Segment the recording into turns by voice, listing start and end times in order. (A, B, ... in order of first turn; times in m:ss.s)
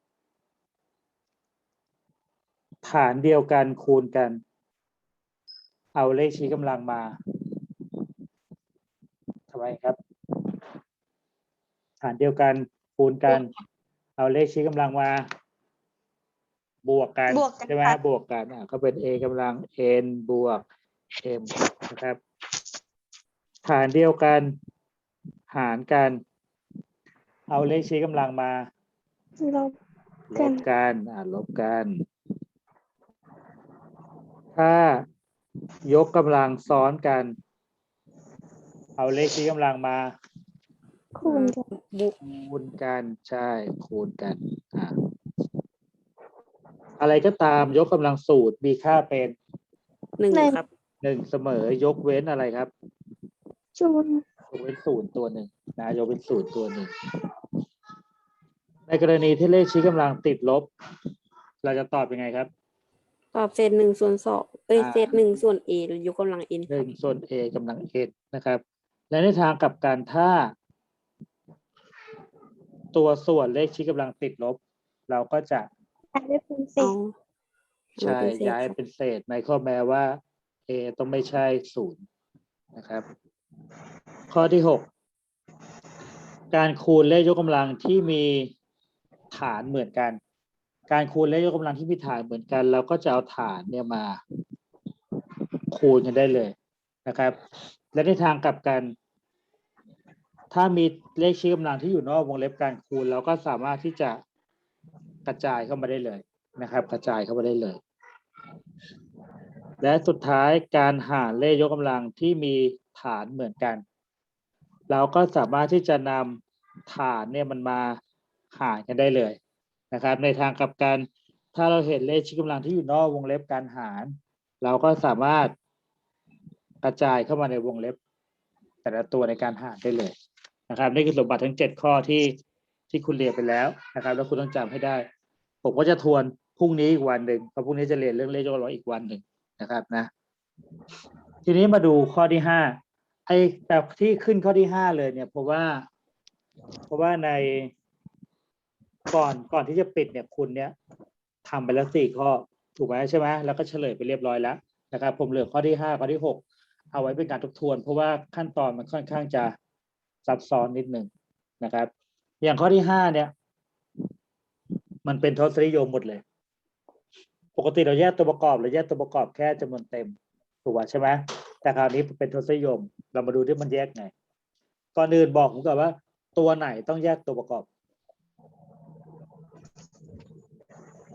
0:02.8-0:04.4 A
0:05.9-0:07.1 A
0:09.5-0:10.0 A
0:12.0-0:13.5 A
0:14.2-0:15.2 A
0:16.8-0:20.6 A
0:17.3-0:18.0 B
0:21.2-0:22.2 A
0:23.6-0:24.5 A
0:25.5-0:26.2 A
0:27.5-0:28.7 A
0:29.4-0:29.8 B
0:30.3-0:32.0 A
0:30.4-0:30.6 B
0:34.5-0:35.0 A
0:35.8-0:37.3 A
0:39.0-0:40.1 A
0:41.2-0:41.6 B
0:41.2-0:42.1 C
0:42.2-0:44.9 A
0:47.0-0:49.4 A
0:50.2-0:50.6 C
0:50.3-0:50.6 B
0:51.0-0:52.7 A
0:53.8-0:54.2 B
0:54.5-0:56.9 A
0:58.9-1:00.7 A
1:01.6-1:02.5 A
1:03.3-1:06.9 C
1:04.7-1:05.2 A
1:06.7-1:10.5 A
1:12.9-1:15.7 A
1:16.1-1:16.9 B
1:16.8-1:17.1 C
1:18.0-1:18.8 C
1:18.0-1:22.0 A
1:22.7-1:23.0 A
1:24.3-1:24.9 A
1:26.5-1:28.5 A
1:29.3-1:30.2 A
1:30.9-1:34.2 A
1:35.7-1:36.5 A
1:37.0-1:37.4 A
1:37.9-1:38.9 A
1:40.5-1:44.2 A
1:45.2-1:47.8 A
1:49.8-1:53.8 A
1:54.9-1:58.0 A
1:58.5-1:59.4 A
1:59.9-2:05.5 A
2:06.8-2:08.0 A
2:08.8-2:10.1 A
2:10.7-2:12.3 A
2:12.9-2:15.0 A
2:15.6-2:20.1 A
2:21.4-2:25.9 A
2:26.9-2:27.7 A
2:29.1-2:30.7 A
2:31.4-2:39.5 A
2:40.2-2:41.1 A
2:41.6-2:43.3 A
2:45.0-2:46.2 A
2:47.5-2:54.1 A
2:54.9-2:57.7 A